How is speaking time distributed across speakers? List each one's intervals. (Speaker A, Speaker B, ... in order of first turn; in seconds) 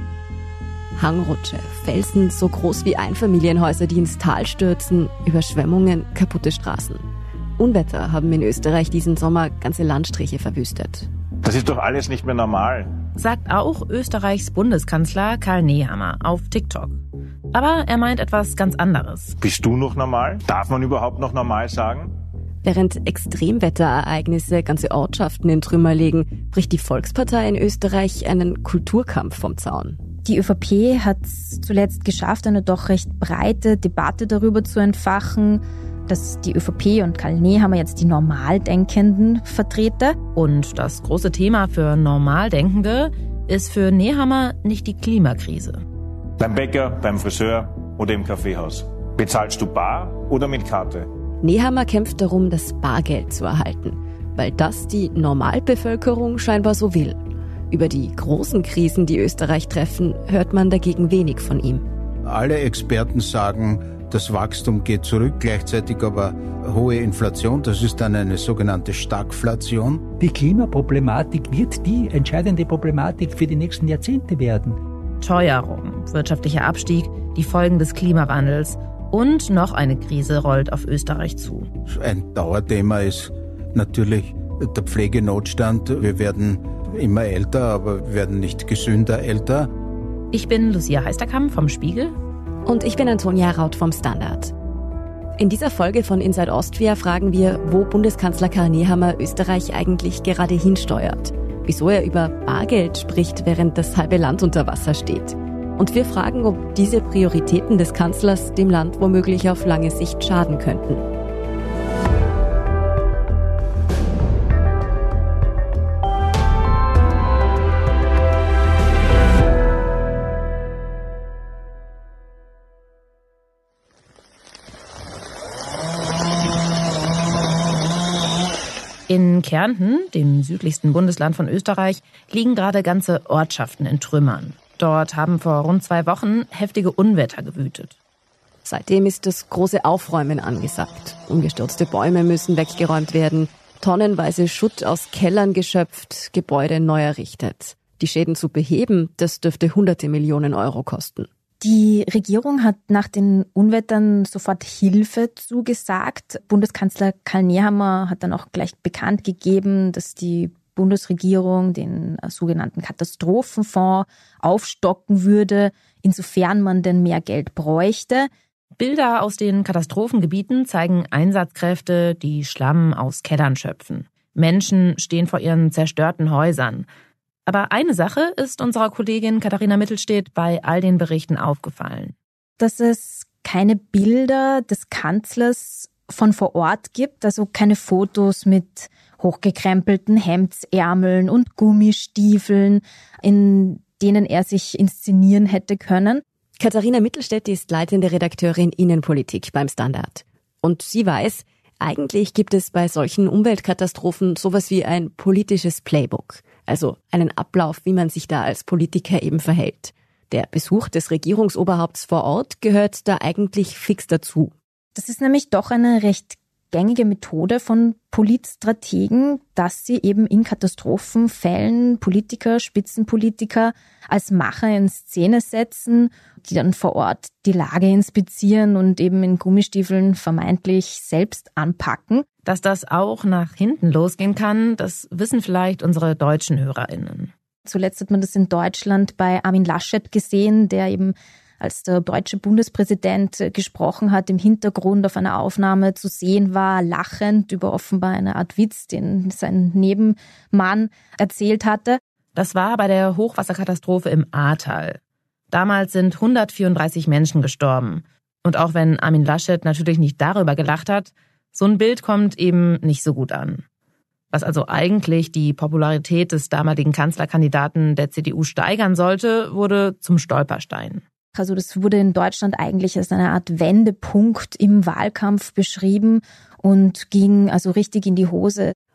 Speaker A: 1.0-7.0, 7.6-11.1, 22.6-30.0, 51.4-61.8, 92.7-94.5, 95.4-111.0, 138.7-151.3, 196.6-214.5
Speaker B: 11.4-13.0, 19.4-22.1, 46.4-51.1
Speaker C: 13.2-17.0, 17.5-19.4, 40.3-45.8, 75.2-81.7, 90.3-92.2, 129.1-137.9, 168.8-176.9, 177.5-182.1, 232.4-237.3, 252.3-255.0, 255.5-263.6, 264.3-271.0
Speaker D: 30.2-40.1, 151.6-168.3, 182.6-196.2, 214.9-232.2, 237.7-252.0, 271.3-278.7
Speaker E: 62.2-70.0, 81.9-89.7
Speaker F: 70.2-74.8